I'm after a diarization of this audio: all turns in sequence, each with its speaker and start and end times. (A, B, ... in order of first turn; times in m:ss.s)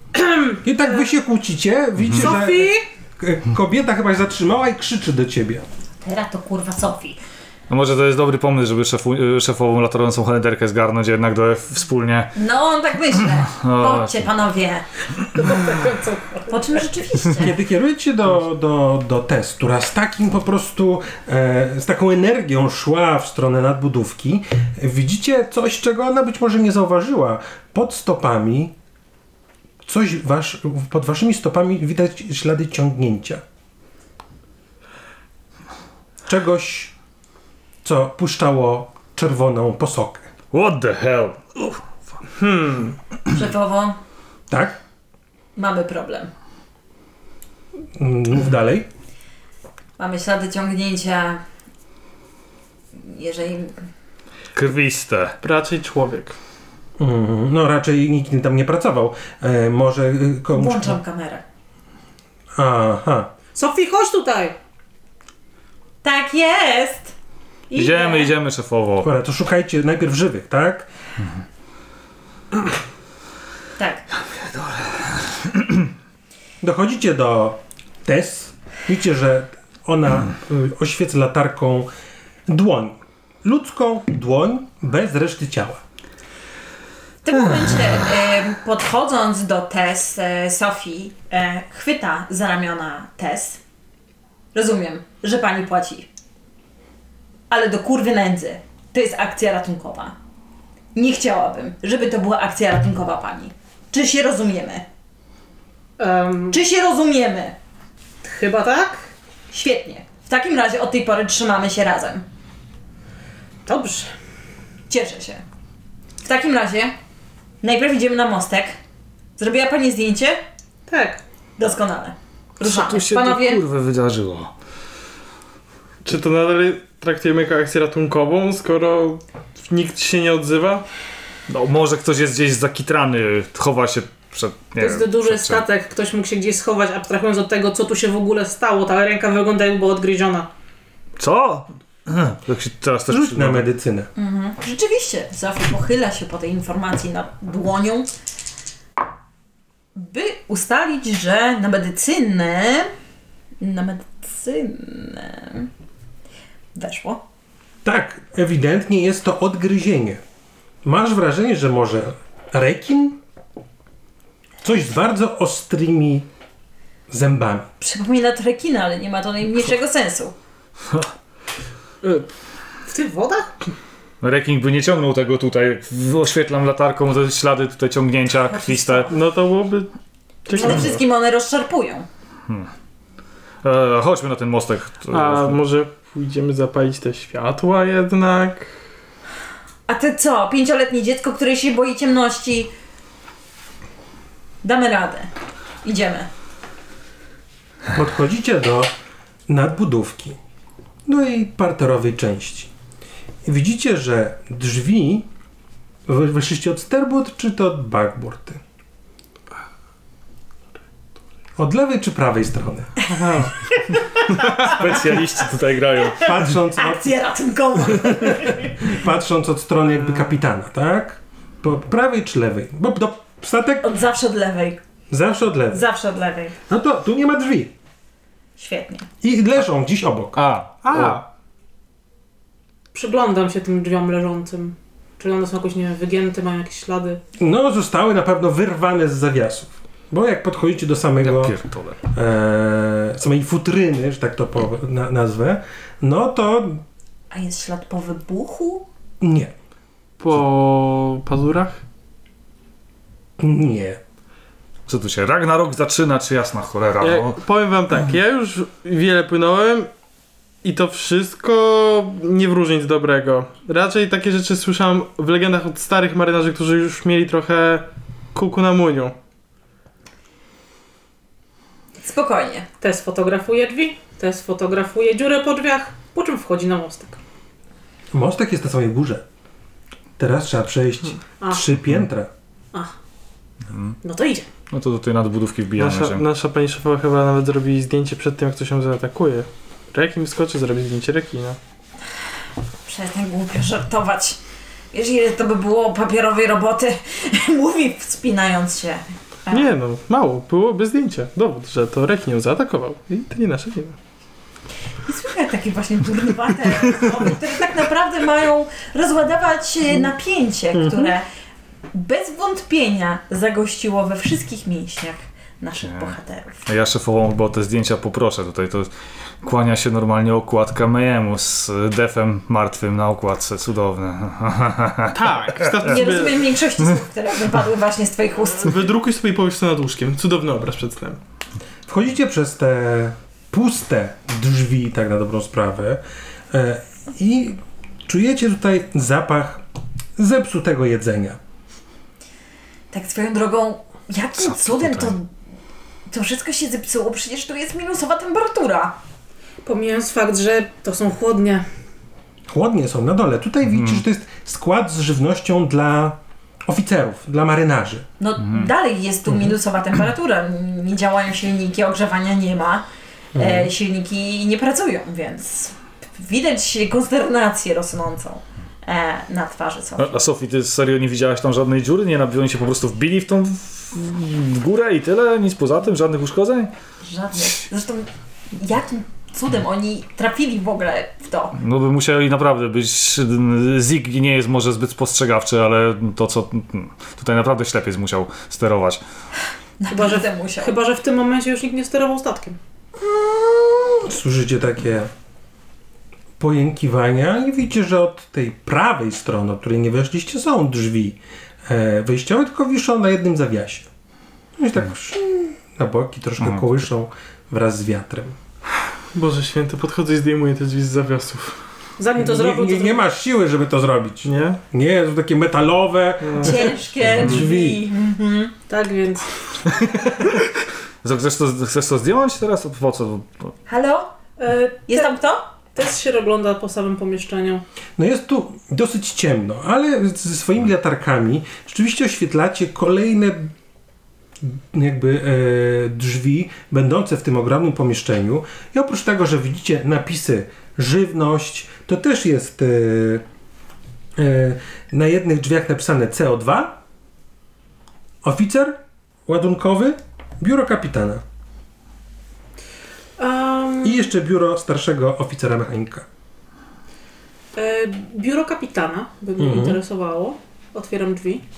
0:00.1-0:01.1 A
0:00.6-0:05.6 B
0:02.1-0:02.9 A
0:06.0-0:07.2 C
0:07.7-0:12.3 D
0:12.3-0:14.8 C
0:13.5-0:14.3 D
0:15.3-0:16.8 A
0:16.5-0:17.5 C
0:17.4-0:28.7 B
0:29.8-0:33.4 B
0:36.3-0:36.9 B
0:37.8-0:40.3 B
0:40.5-0:41.8 D
0:42.4-0:43.0 E
0:43.3-0:44.0 C
0:44.5-0:44.8 B
0:45.6-0:46.3 C
0:47.9-0:48.9 B
0:50.0-0:51.4 C
0:52.9-0:53.8 C
0:54.6-0:55.4 D
0:55.4-0:56.4 E
0:57.0-1:01.0 B
1:00.5-1:01.4 C
1:02.6-1:03.3 B
1:03.5-1:04.6 A
1:06.0-1:07.2 C
1:07.7-1:08.3 C
1:07.7-1:09.1 D
1:09.0-1:10.9 B
1:13.8-1:14.0 C
1:14.5-1:15.0 D
1:16.6-1:21.9 B
1:22.5-1:25.8 B
1:27.2-1:33.6 C
1:34.5-1:36.1 C
1:37.5-1:40.2 C
1:40.9-1:44.8 C
1:46.0-1:46.6 A
1:46.5-1:47.6 C
1:48.2-1:49.1 A
1:49.5-1:52.3 C
1:53.7-1:54.1 A
1:54.9-1:55.4 C
1:56.2-1:57.0 C
1:57.6-1:58.8 C
1:59.4-2:00.4 C
2:00.9-2:01.2 A
2:01.6-2:03.6 C
2:02.6-2:04.5 D
2:06.0-2:10.8 E
2:11.5-2:15.6 D
2:14.8-2:20.5 A
2:21.2-2:23.7 D
2:23.1-2:24.1 B
2:24.2-2:28.1 C
2:29.9-2:32.9 C
2:33.6-2:35.7 C
2:36.7-2:37.2 C
2:37.8-2:40.2 B
2:40.8-2:43.2 B
2:44.6-2:46.3 B
2:47.1-2:47.7 B
2:47.8-2:50.3 C
2:52.9-2:53.5 A
2:54.2-2:59.1 D
2:58.5-2:59.1 C
2:59.1-2:59.9 E
3:00.4-3:01.0 E
3:00.5-3:02.1 C
3:03.6-3:05.6 D
3:05.1-3:08.8 E
3:09.9-3:12.7 C
3:14.6-3:15.3 C
3:15.8-3:16.3 C
3:17.9-3:18.9 B
3:19.5-3:20.4 B
3:21.1-3:22.7 B
3:23.4-3:25.3 B
3:26.1-3:28.6 B
3:31.6-3:33.0 B
3:33.1-3:33.6 E
3:33.9-3:34.7 C
3:34.6-3:36.4 D
3:36.2-3:37.2 B
3:36.7-3:38.8 C
3:37.8-3:43.9 B
3:43.8-3:44.8 C
3:45.1-3:45.8 B
3:45.7-3:46.6 C
3:46.7-3:47.7 B
3:48.6-3:49.1 C
3:49.2-3:50.4 B
3:50.4-3:51.2 D
3:50.8-3:51.3 E
3:52.9-3:57.2 A
3:57.4-4:01.6 B
4:01.2-4:02.0 D
4:02.1-4:06.8 B
4:07.3-4:08.9 C
4:09.2-4:09.5 B
4:10.2-4:11.8 E
4:13.4-4:14.0 B
4:14.9-4:17.4 D
4:17.0-4:19.9 E
4:20.6-4:29.2 E
4:32.0-4:32.7 C
4:32.8-4:37.2 A
4:38.1-4:39.2 B
4:40.2-4:42.3 B
4:41.4-4:41.6 A
4:43.7-4:44.0 D
4:44.0-4:44.5 A
4:44.7-4:46.2 D
4:45.8-4:51.6 E
4:52.8-4:54.4 C
4:54.9-4:59.7 C
4:59.5-5:04.0 E
5:05.0-5:11.3 C
5:10.7-5:11.1 B
5:11.9-5:16.6 C
5:15.8-5:16.1 D
5:16.7-5:18.9 D
5:19.4-5:25.7 D
5:25.1-5:26.5 E
5:25.8-5:28.8 C
5:28.6-5:31.2 E
5:31.9-5:39.6 B
5:40.2-5:41.4 B
5:42.9-5:45.3 C
5:44.4-5:45.1 D
5:46.1-5:49.0 C
5:49.6-5:51.7 A
5:52.5-5:58.1 B
5:58.2-6:10.2 C
6:03.3-6:03.7 B
6:10.0-6:16.7 D
6:17.0-6:21.6 C
6:21.6-6:29.0 D
6:29.8-6:30.8 C
6:29.9-6:32.6 A
6:33.2-6:35.1 B
6:36.4-6:43.9 B
6:44.6-6:48.4 B
6:49.1-6:51.6 E
6:52.0-6:53.0 A
6:52.2-6:57.8 B
6:54.2-6:54.6 E
6:56.2-6:56.6 E
6:56.4-6:58.5 C
6:58.7-6:59.3 A
7:01.0-7:03.5 D
7:03.7-7:04.1 C
7:04.4-7:05.2 A
7:04.9-7:05.4 C
7:05.7-7:07.6 A
7:08.0-7:13.5 B
7:14.4-7:23.2 B
7:24.2-7:26.8 B
7:28.2-7:31.2 B
7:33.2-7:34.1 A
7:33.8-7:36.1 B
7:37.6-7:41.4 A
7:39.4-7:39.8 B